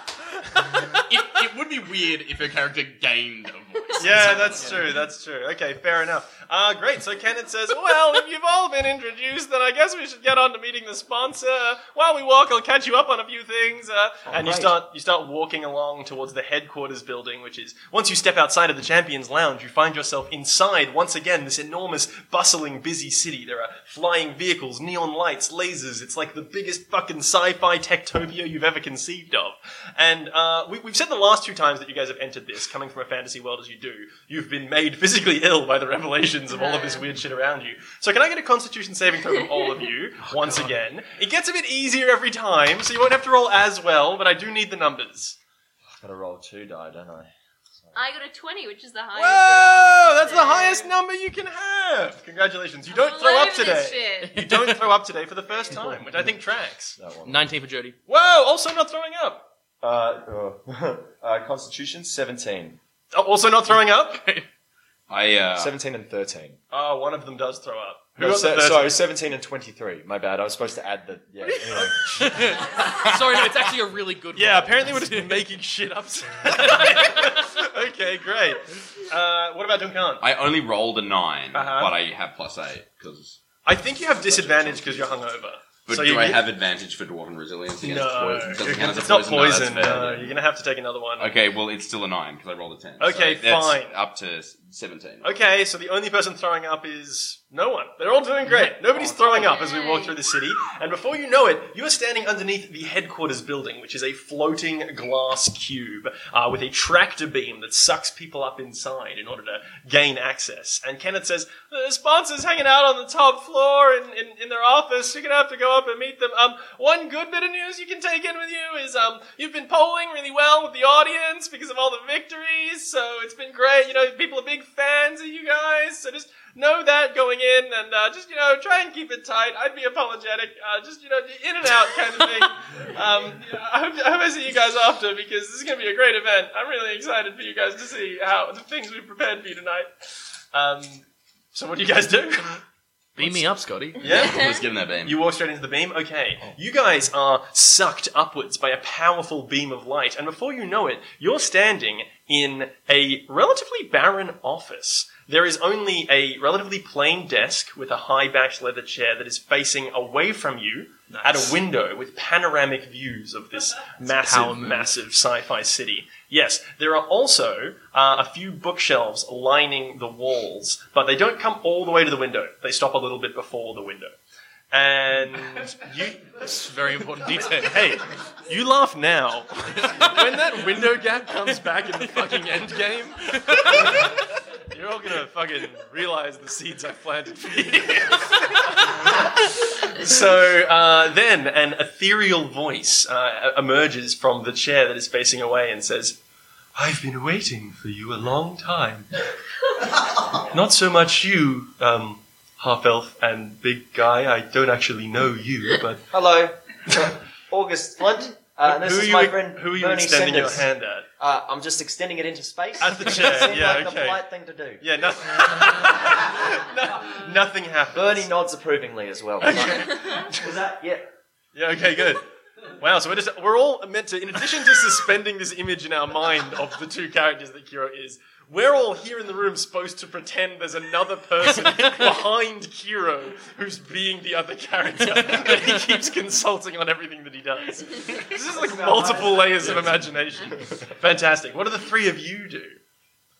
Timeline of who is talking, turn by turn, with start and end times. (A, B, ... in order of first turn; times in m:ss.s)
0:00.5-0:01.0 A
0:01.1-0:04.8 B
0:04.0-0:45.4 A
0:14.3-0:14.8 C
0:36.5-0:37.1 D
0:46.0-0:48.0 C
0:47.9-0:50.9 D
0:49.2-0:57.0 A
0:52.9-0:54.4 D
0:54.2-0:54.9 E
0:55.7-0:56.2 C
0:57.0-0:57.4 C
0:57.2-0:58.0 E
0:58.1-0:59.5 A
0:59.8-1:02.8 C
1:03.1-1:04.2 A
1:04.1-1:04.4 E
1:05.1-1:05.7 B
1:05.6-1:06.6 C
1:06.7-1:09.0 A
1:08.2-1:12.5 C
1:11.8-1:15.4 E
1:14.4-1:20.2 A
1:16.6-1:17.5 E
1:20.2-1:23.4 B
1:21.5-1:21.9 A
1:23.7-1:26.4 A
1:24.2-1:25.2 B
1:25.9-1:30.4 B
1:27.8-1:31.3 A
1:31.2-1:35.3 B
1:33.0-1:34.0 A
1:35.2-2:19.9 A
1:39.0-1:39.4 C
1:39.2-1:40.2 D
2:20.5-2:22.6 A
2:23.2-2:24.1 E
2:24.0-2:54.2 A
2:24.0-2:25.2 B
2:24.1-2:24.6 D
2:41.1-2:41.6 E
2:44.0-2:44.9 E
2:54.7-2:56.4 A
2:56.4-2:57.9 E
2:57.6-3:16.2 A
2:59.7-3:00.2 E
3:02.1-3:02.4 E
3:03.3-3:04.2 E
3:16.8-3:19.1 A
3:20.3-3:26.0 A
3:26.1-3:34.8 C
3:28.6-3:31.1 A
3:32.8-3:34.2 A
3:34.8-3:38.3 A
3:37.9-3:41.1 C
3:39.4-3:40.5 A
3:41.5-4:02.8 A
3:51.6-3:52.0 E
3:55.1-3:56.0 E
3:58.6-4:00.0 C